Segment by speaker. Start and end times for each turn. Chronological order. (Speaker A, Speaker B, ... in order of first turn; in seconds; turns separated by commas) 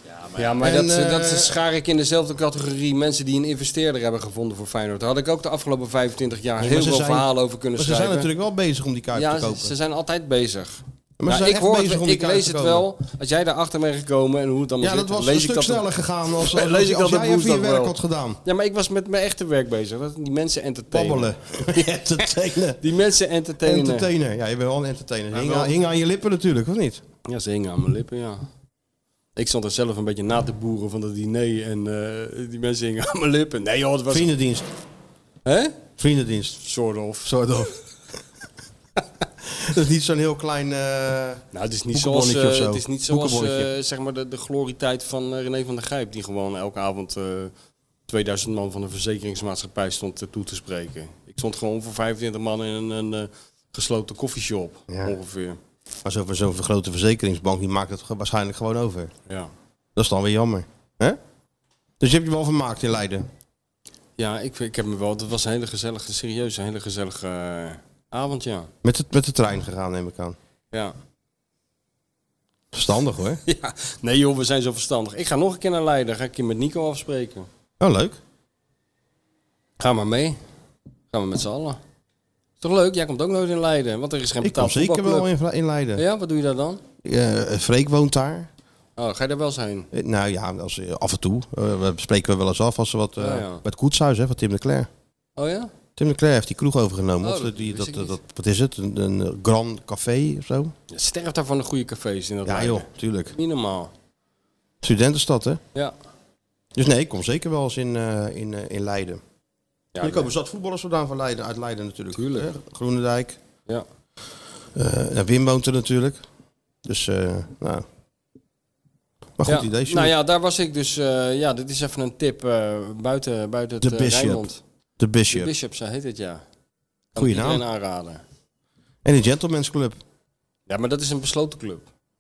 Speaker A: 0.3-8.3, Speaker B: 0.6-1.6, Speaker B: 6.6-9.7, Speaker A: 9.1-22.3, Speaker B: 11.2-12.9, Speaker B: 14.8-18.4, Speaker B: 20.9-22.8, Speaker A: 22.8-24.1, Speaker B: 23.6-27.0, Speaker A: 25.3-25.7, Speaker A: 27.3-28.4, Speaker A: 29.4-34.3, Speaker B: 34.1-34.7, Speaker A: 35.5-35.8, Speaker B: 36.0-36.6, Speaker A: 36.6-37.3, Speaker B: 37.2-37.7, Speaker B: 39.4-43.7, Speaker A: 41.5-47.5, Speaker A: 48.1-55.6, Speaker B: 54.9-55.2, Speaker B: 56.0-59.1, Speaker B: 60.0-61.2, Speaker B: 62.0-63.3, Speaker A: 64.2-68.7, Speaker B: 68.8-70.4, Speaker B: 72.7-73.4, Speaker A: 73.5-77.5, Speaker B: 77.8-78.2, Speaker A: 79.8-80.4, Speaker A: 81.1-81.8, Speaker A: 82.6-85.3, Speaker B: 84.4-86.0, Speaker A: 86.0-86.8, Speaker B: 87.0-88.5, Speaker A: 89.0-89.9, Speaker B: 89.9-94.9, Speaker A: 93.2-93.6, Speaker A: 95.4-95.7, Speaker B: 96.0-100.7, Speaker A: 97.2-98.2, Speaker A: 100.9-103.9, Speaker B: 102.5-103.3, Speaker B: 104.8-105.6, Speaker B: 106.8-109.2, Speaker A: 110.0-110.3, Speaker B: 110.0-113.4, Speaker A: 112.2-112.5, Speaker B: 114.8-116.2, Speaker B: 116.8-117.8, Speaker B: 119.4-120.1, Speaker A: 119.5-124.6, Speaker B: 123.8-124.5, Speaker B: 125.0-125.5, Speaker A: 125.3-126.4, Speaker B: 127.2-127.6, Speaker A: 127.2-128.2, Speaker B: 129.1-130.0, Speaker A: 130.7-131.9